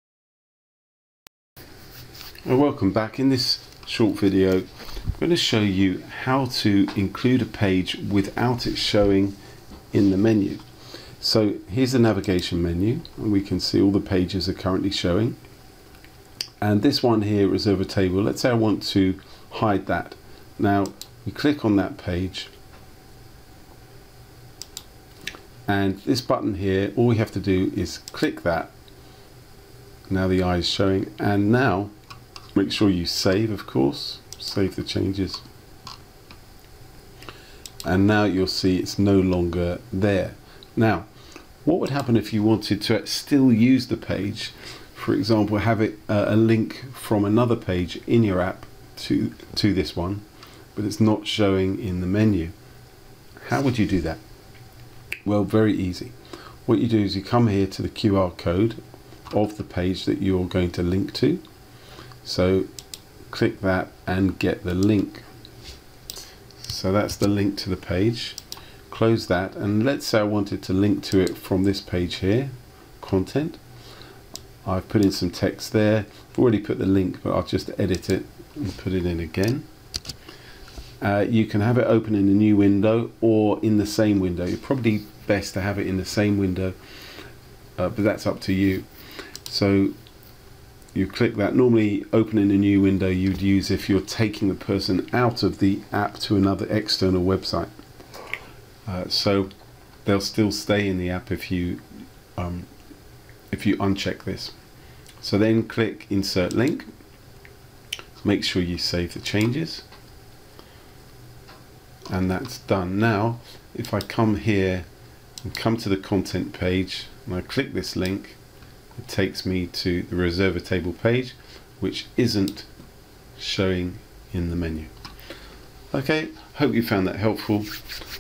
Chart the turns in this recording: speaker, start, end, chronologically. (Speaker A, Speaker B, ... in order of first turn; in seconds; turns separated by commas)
Speaker A: 2.5-9.4, Speaker A: 9.9-10.6, Speaker A: 11.2-15.4, Speaker A: 16.6-22.5, Speaker A: 25.7-28.7, Speaker A: 30.1-31.9, Speaker A: 32.5-35.4, Speaker A: 37.8-41.1, Speaker A: 41.6-50.2, Speaker A: 50.8-52.5, Speaker A: 53.4-54.2, Speaker A: 55.2-56.1, Speaker A: 56.7-61.4, Speaker A: 62.2-62.7, Speaker A: 63.3-65.2, Speaker A: 66.6-68.4, Speaker A: 68.9-73.6, Speaker A: 74.6-79.7, Speaker A: 81.0-86.8, Speaker A: 87.8-88.9, Speaker A: 89.5-89.9, Speaker A: 90.9-97.7, Speaker A: 98.8-99.5, Speaker A: 100.0-101.8, Speaker A: 102.3-102.7, Speaker A: 103.5-104.5, Speaker A: 105.2-106.9, Speaker A: 108.2-109.8, Speaker A: 112.1-114.9, Speaker A: 115.4-118.4, Speaker A: 119.0-122.7, Speaker A: 123.4-124.9, Speaker A: 125.9-127.8